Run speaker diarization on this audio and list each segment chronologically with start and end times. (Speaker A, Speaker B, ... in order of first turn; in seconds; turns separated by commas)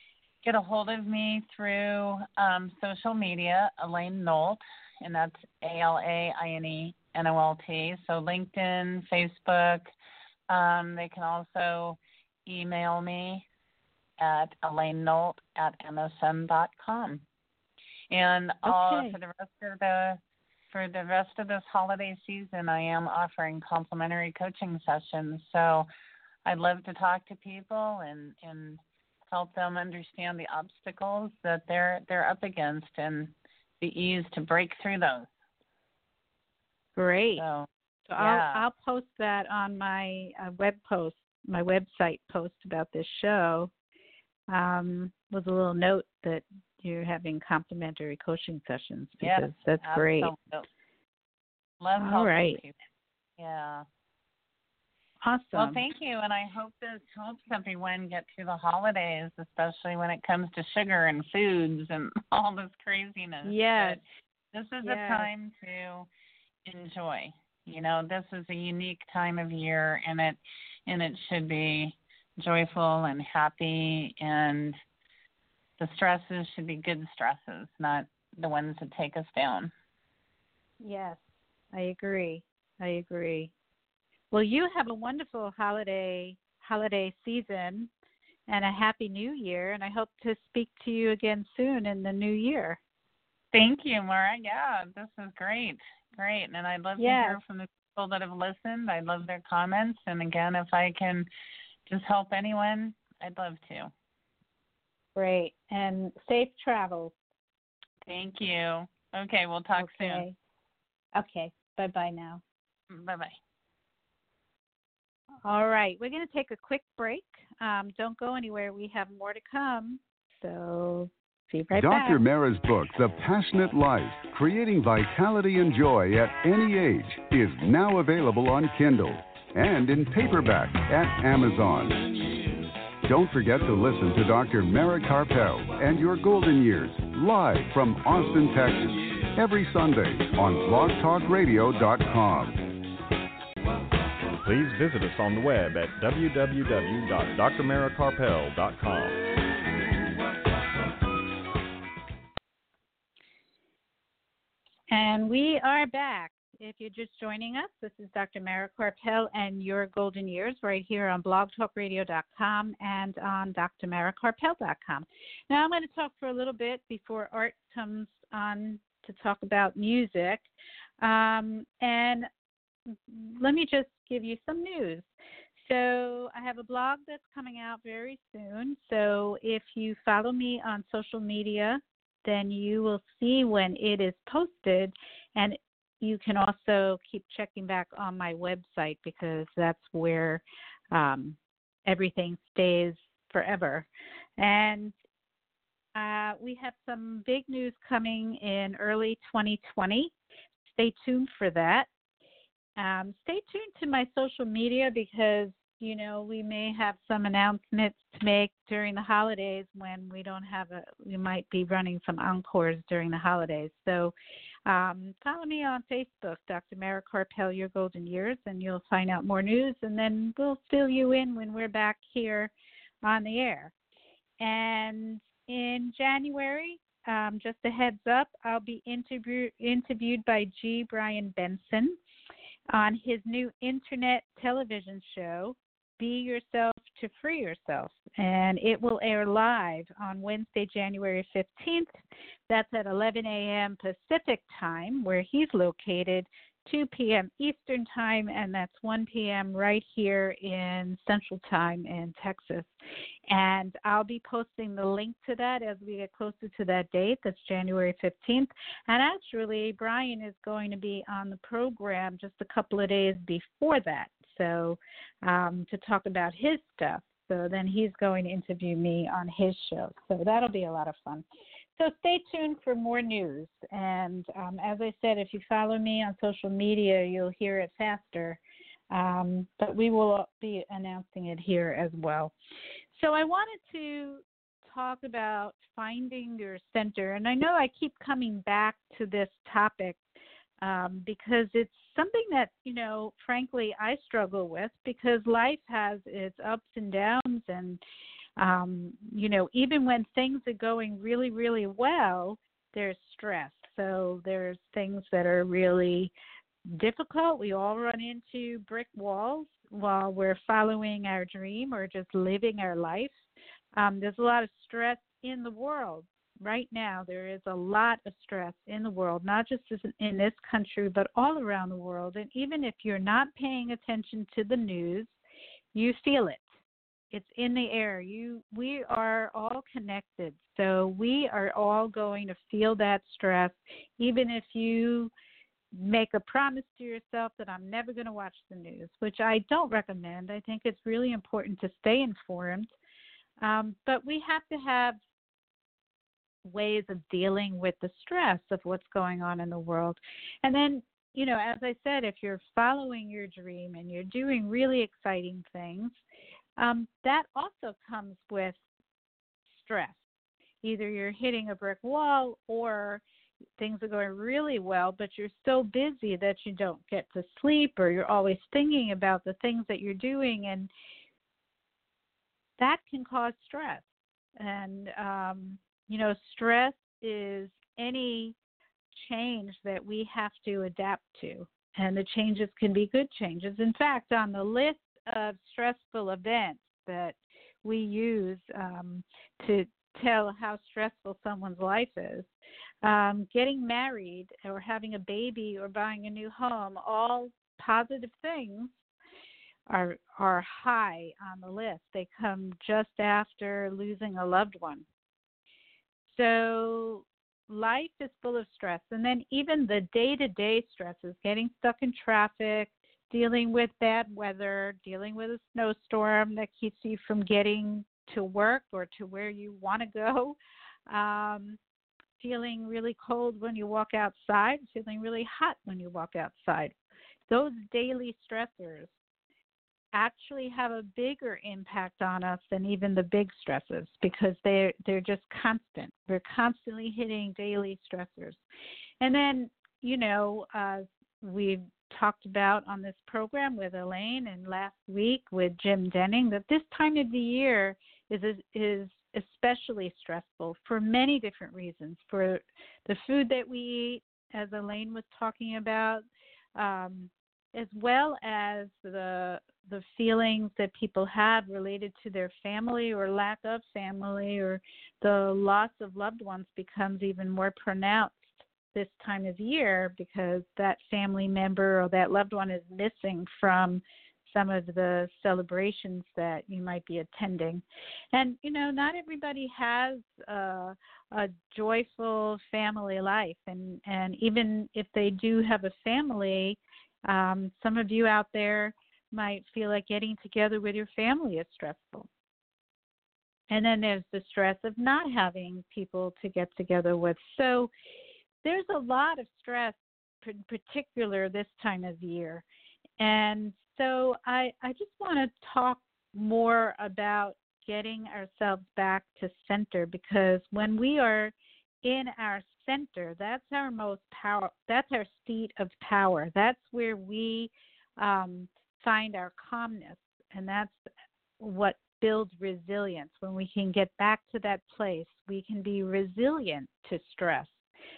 Speaker A: 0.4-9.9, Speaker A: 10.5-13.4, Speaker A: 14.2-17.2, Speaker A: 18.1-20.2, Speaker B: 18.6-19.2, Speaker A: 20.7-25.9, Speaker A: 26.4-35.3, Speaker B: 37.0-37.4, Speaker A: 37.4-38.6, Speaker B: 38.1-43.7, Speaker B: 44.5-50.3, Speaker A: 49.2-50.7, Speaker A: 51.8-52.8, Speaker B: 52.0-52.6, Speaker A: 53.4-53.9, Speaker B: 55.2-55.8, Speaker A: 55.5-66.1, Speaker B: 63.5-64.0, Speaker B: 64.8-65.3, Speaker A: 66.7-74.8, Speaker A: 75.8-79.7, Speaker B: 80.8-83.5, Speaker B: 84.3-87.9, Speaker B: 88.5-92.8, Speaker A: 93.5-101.3, Speaker B: 97.0-97.4, Speaker A: 101.9-103.9, Speaker B: 105.1-107.1, Speaker A: 108.1-110.2, Speaker B: 109.8-110.4, Speaker B: 111.1-112.4, Speaker A: 112.9-113.4, Speaker B: 115.5-122.2, Speaker C: 121.7-132.0, Speaker C: 133.1-142.6, Speaker D: 144.4-149.2, Speaker B: 154.9-170.5, Speaker B: 171.0-172.3, Speaker B: 172.9-193.9, Speaker B: 194.4-194.9, Speaker B: 195.9-200.1, Speaker B: 200.7-201.9, Speaker B: 202.8-214.1, Speaker B: 214.7-222.5, Speaker B: 223.1-223.7, Speaker B: 224.4-232.0, Speaker B: 232.7-241.9, Speaker B: 242.5-252.7, Speaker B: 253.3-271.2, Speaker B: 271.8-278.4, Speaker B: 278.9-282.3, Speaker B: 282.9-290.0, Speaker B: 290.6-297.8, Speaker B: 298.4-306.1, Speaker B: 306.7-313.2, Speaker B: 313.8-325.2, Speaker B: 325.7-326.5, Speaker B: 327.1-335.1, Speaker B: 335.7-342.7, Speaker B: 343.4-345.0, Speaker B: 346.4-356.0, Speaker B: 356.6-358.6, Speaker B: 359.5-360.0, Speaker B: 360.6-363.0, Speaker B: 363.6-370.7, Speaker B: 372.6-373.9, Speaker B: 374.4-378.4, Speaker B: 378.9-392.3, Speaker B: 392.8-398.8, Speaker B: 399.7-404.9, Speaker B: 406.1-420.4, Speaker B: 420.9-421.6, Speaker B: 422.2-426.8, Speaker B: 427.3-428.9, Speaker B: 429.9-438.4, Speaker B: 439.0-456.1, Speaker B: 456.6-492.1, Speaker B: 493.5-497.7, Speaker B: 498.4-502.4, Speaker B: 503.0-520.8, Speaker B: 521.4-527.6